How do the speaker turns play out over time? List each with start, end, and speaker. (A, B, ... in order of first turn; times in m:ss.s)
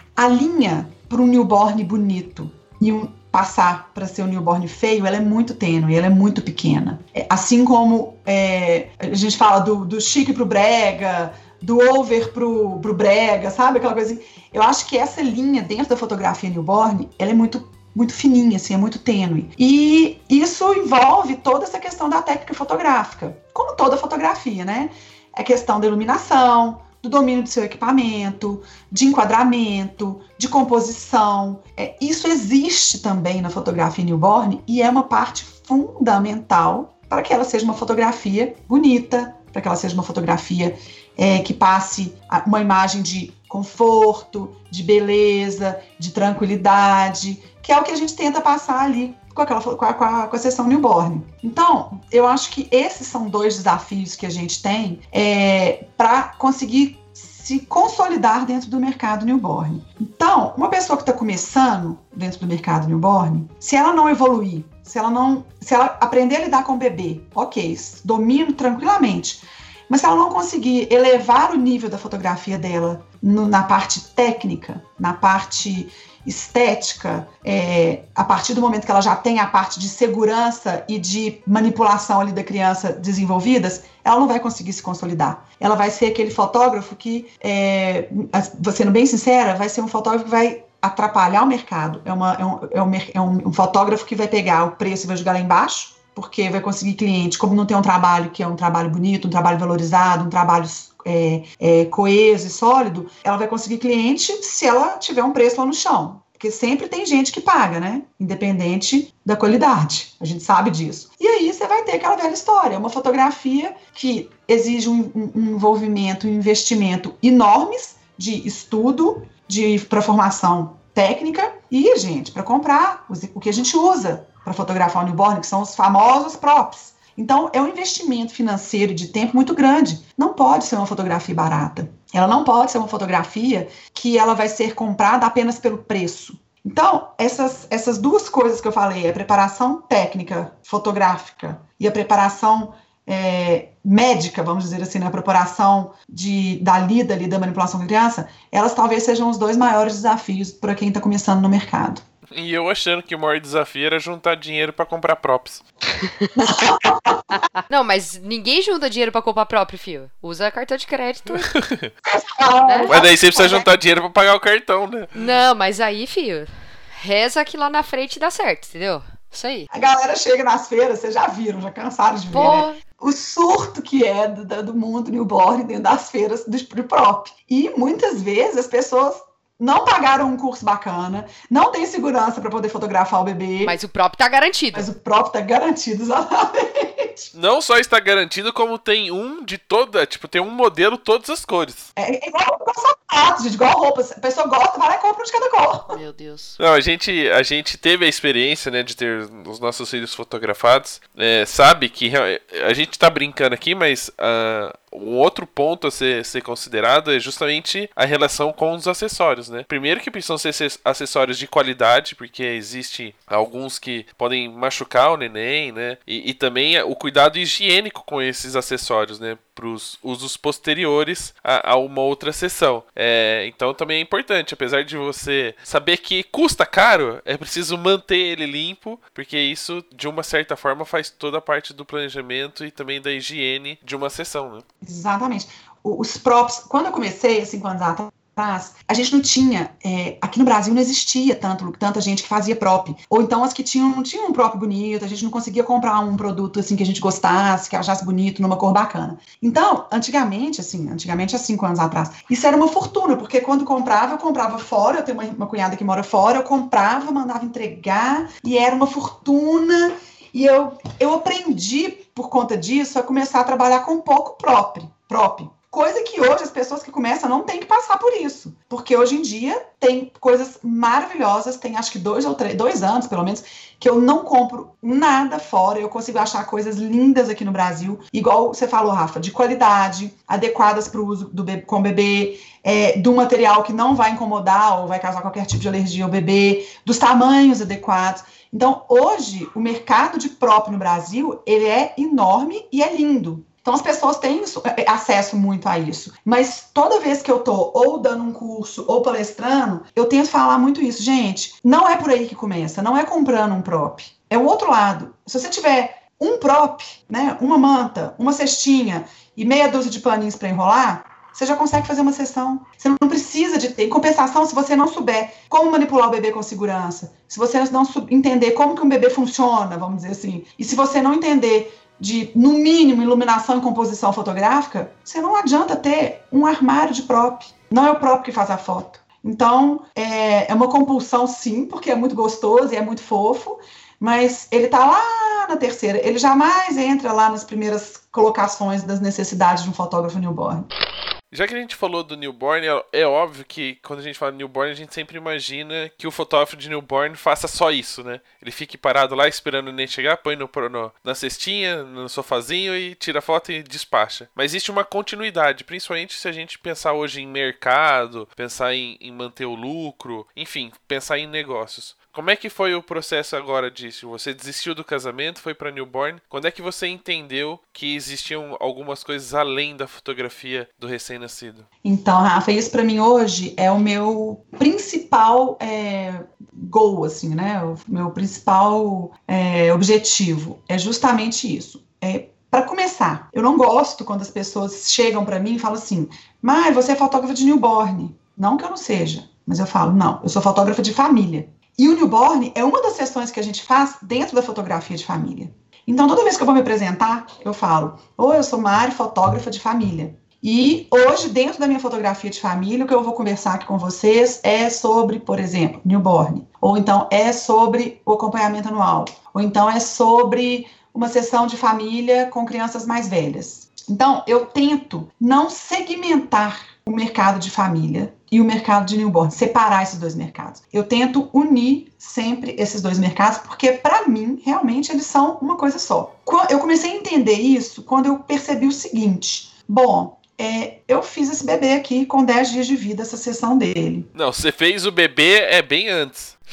0:00.2-2:32.0 A
2:32.3-2:35.6 B
2:36.0-2:36.7 C
2:36.4-2:37.4 A
2:37.7-2:41.5 C
2:41.5-2:41.9 B
2:42.0-2:43.7 A
2:42.6-2:42.9 C
2:42.9-2:45.3 B
2:45.1-2:49.7 C
2:49.7-3:03.7 A
2:52.3-2:52.8 C
3:03.6-3:04.9 C
3:04.7-3:07.3 A
3:07.3-3:11.9 B
3:12.0-3:16.0 A
3:15.9-3:16.6 C
3:16.6-3:54.6 B
3:54.8-5:40.7 A
5:41.3-6:11.7 B
6:11.8-7:14.1 A
7:14.1-7:16.4 B